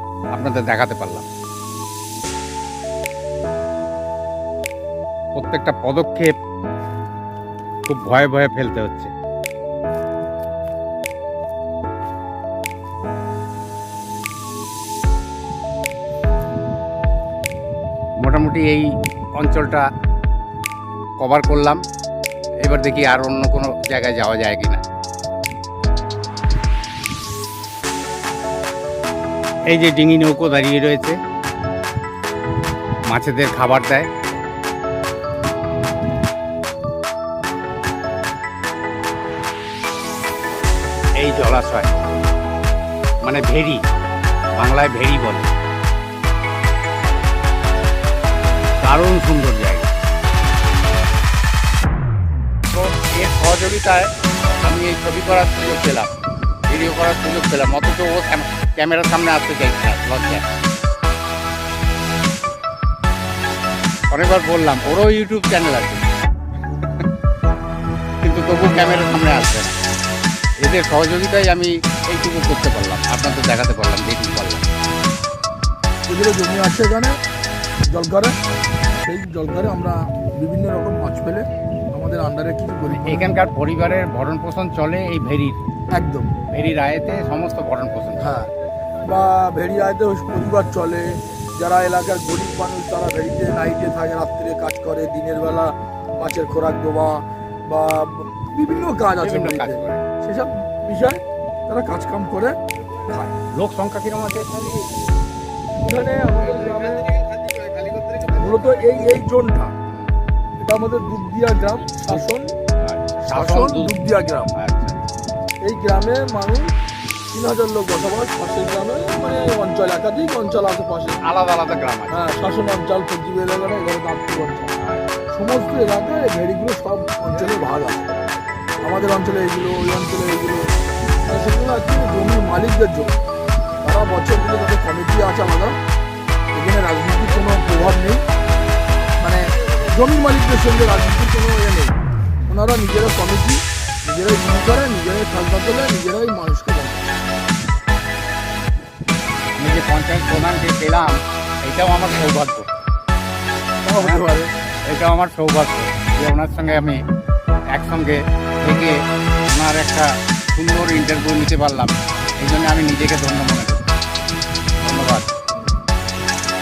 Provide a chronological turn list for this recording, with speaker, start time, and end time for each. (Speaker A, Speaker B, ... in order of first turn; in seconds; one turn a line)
Speaker A: 0.3-1.3
Speaker A: 5.3-6.3
Speaker A: 7.8-9.1
Speaker A: 18.2-19.9
Speaker A: 21.2-21.8
Speaker A: 22.6-24.8
Speaker A: 29.7-31.2
Speaker A: 33.0-34.1
Speaker A: 41.2-41.9
Speaker A: 43.2-43.8
Speaker A: 44.5-45.5
Speaker A: 48.8-49.9
Speaker A: 52.7-54.1
Speaker A: 54.6-56.1
Speaker A: 56.7-60.5
Speaker A: 64.1-66.0
Speaker A: 68.2-69.7
Speaker A: 70.6-74.7
Speaker B: 76.1-77.2
Speaker B: 77.9-78.4
Speaker B: 79.0-83.3
Speaker A: 83.0-85.6
Speaker B: 85.9-86.3
Speaker A: 86.5-88.3
Speaker B: 88.2-88.5
Speaker B: 89.0-103.3
Speaker A: 99.1-100.0
Speaker A: 103.5-104.5
Speaker B: 105.8-107.1
Speaker B: 108.2-109.7
Speaker B: 110.6-112.5
Speaker A: 112.8-113.9
Speaker B: 113.3-114.5
Speaker A: 114.5-115.0
Speaker B: 115.6-116.7
Speaker B: 117.3-121.2
Speaker A: 121.2-122.3
Speaker B: 122.1-124.7
Speaker A: 124.8-125.3
Speaker B: 125.3-128.2
Speaker B: 128.8-130.7
Speaker B: 131.2-133.2
Speaker B: 133.8-135.8
Speaker B: 136.5-138.2
Speaker B: 139.2-141.9
Speaker B: 142.5-147.1
Speaker A: 149.5-152.7
Speaker B: 153.8-154.5
Speaker A: 154.8-157.0
Speaker A: 157.7-158.9
Speaker A: 159.5-163.8
Speaker A: 164.8-165.3